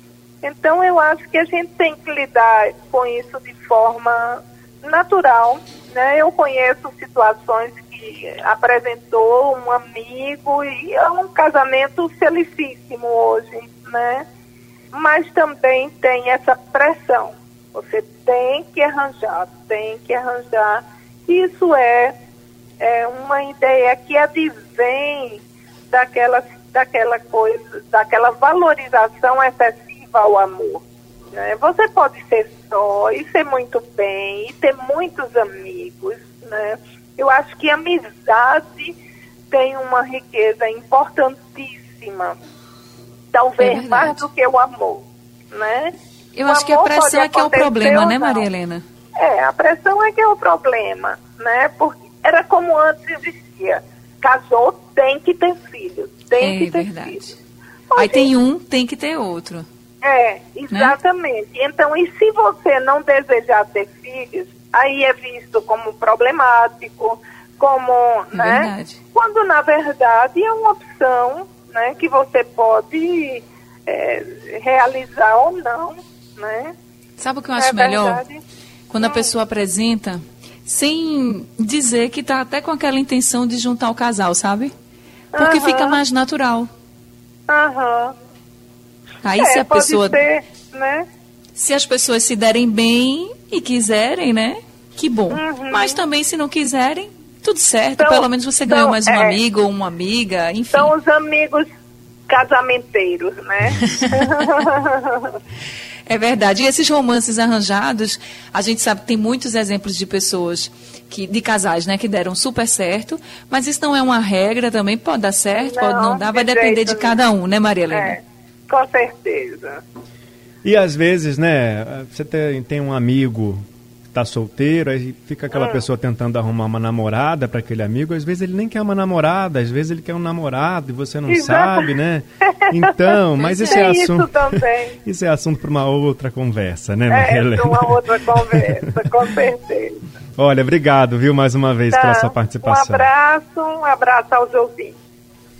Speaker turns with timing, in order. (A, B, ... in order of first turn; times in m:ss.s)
0:00.4-0:14.2 A
0:14.9-0:22.1 A
0:22.8-0:39.0 A
0:39.5-0:42.4 A
0:43.3-0:45.9 A
0:43.6-0:44.2 B
0:46.3-0:48.8 B
0:46.4-0:48.5 A
0:49.2-0:57.3 A
0:56.4-0:57.3 B
0:57.9-0:58.3 A
0:58.0-0:59.6 B
1:00.0-1:16.7 A
1:00.7-1:01.0 B
1:08.3-1:09.0 B
1:17.2-1:18.2 B
1:17.6-1:18.4 A
1:18.9-1:24.7 B
1:19.0-1:19.3 A
1:25.3-1:26.0 A
1:25.4-1:26.7 B
1:27.5-1:28.1 A
1:29.2-1:30.2 B
1:29.4-1:31.0 A
1:31.6-1:40.9 B
1:35.3-1:36.0 A
1:38.0-1:39.4 A
1:40.7-1:41.7 A
1:42.3-1:45.4 A
1:43.7-1:44.6 B
1:46.1-1:58.2 B
1:55.6-1:57.2 A
1:57.9-1:59.8 A
2:00.6-2:19.0 C
2:05.5-2:05.8 A
2:11.3-2:11.9 A
2:12.5-2:12.9 A
2:13.4-2:13.8 B
2:13.6-2:15.0 A
2:17.1-2:20.0 A
2:20.4-2:23.1 C
2:21.9-2:25.0 A